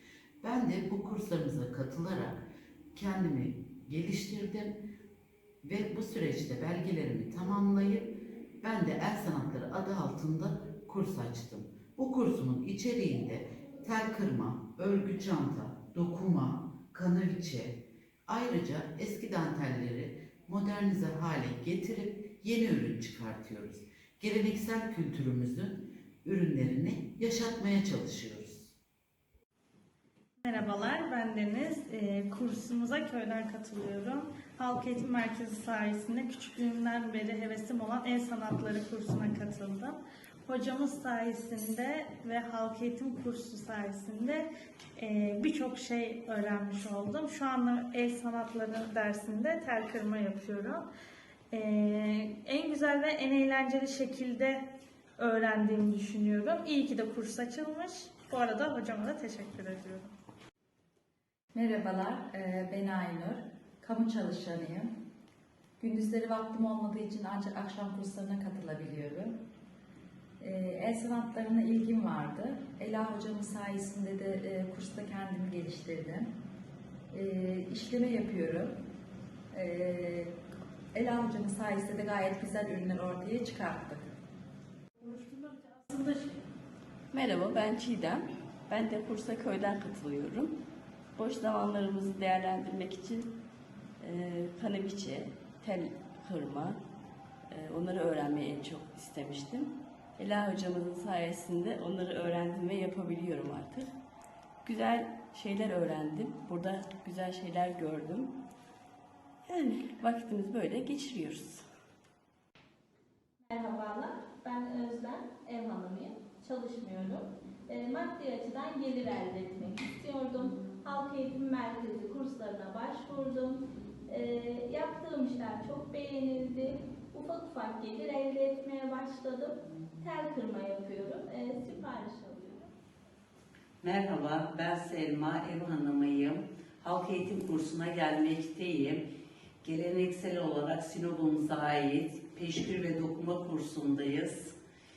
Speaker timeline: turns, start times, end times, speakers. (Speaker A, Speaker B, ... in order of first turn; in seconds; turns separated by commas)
Speaker A: 0.4-2.4, Speaker A: 2.9-4.8, Speaker A: 5.6-28.7, Speaker B: 30.4-50.8, Speaker B: 51.5-54.6, Speaker B: 55.2-60.1, Speaker C: 61.5-64.9, Speaker C: 65.8-69.3, Speaker C: 70.4-76.3, Speaker C: 77.1-78.7, Speaker C: 79.5-80.3, Speaker C: 80.9-84.1, Speaker B: 85.2-86.3, Speaker D: 87.1-90.5, Speaker D: 91.2-93.3, Speaker D: 94.0-96.8, Speaker D: 97.5-103.9, Speaker D: 104.6-108.3, Speaker D: 109.5-111.7, Speaker E: 113.5-132.6, Speaker F: 133.8-139.0, Speaker F: 139.6-144.5